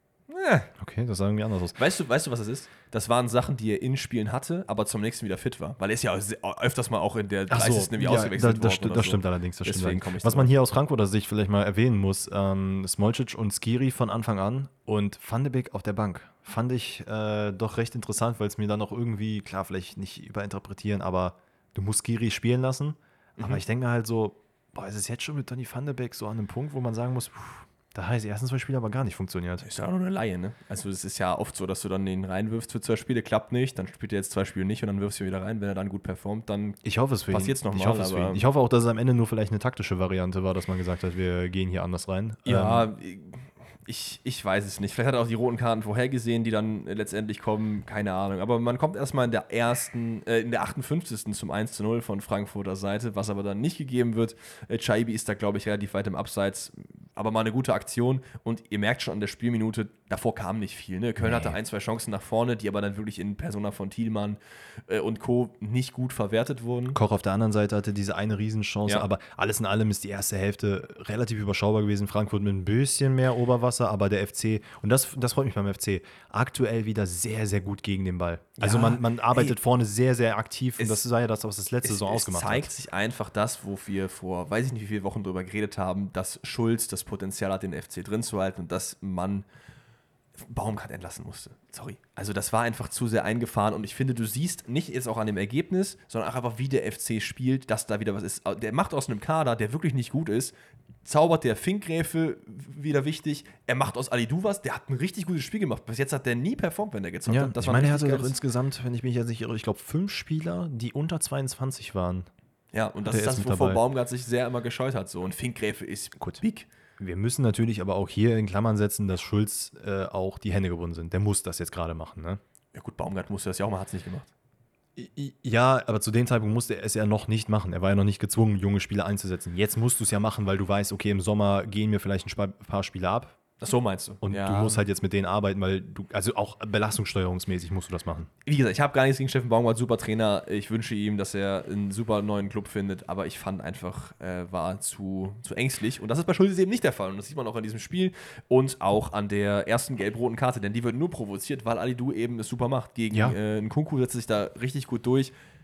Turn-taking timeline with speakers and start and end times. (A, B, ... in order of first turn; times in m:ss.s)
0:00.3-0:00.7 A
0:00.8-0:01.8 B
0:01.8-0:10.5 A
0:07.5-0:29.6 B
0:29.6-0:38.4 A
0:36.8-0:42.9 B
0:42.4-1:07.0 A
1:06.9-1:22.7 B
1:18.6-1:19.6 A
1:21.8-1:29.4 A
1:30.4-1:40.5 A
1:41.0-1:48.3 A
1:47.3-1:52.3 B
1:52.7-1:56.7 A
1:53.0-1:53.8 B
1:57.0-2:02.4 B
2:02.7-2:04.3 A
2:05.0-2:13.4 B
2:13.6-2:14.8 A
2:14.2-2:18.3 B
2:18.4-2:35.3 A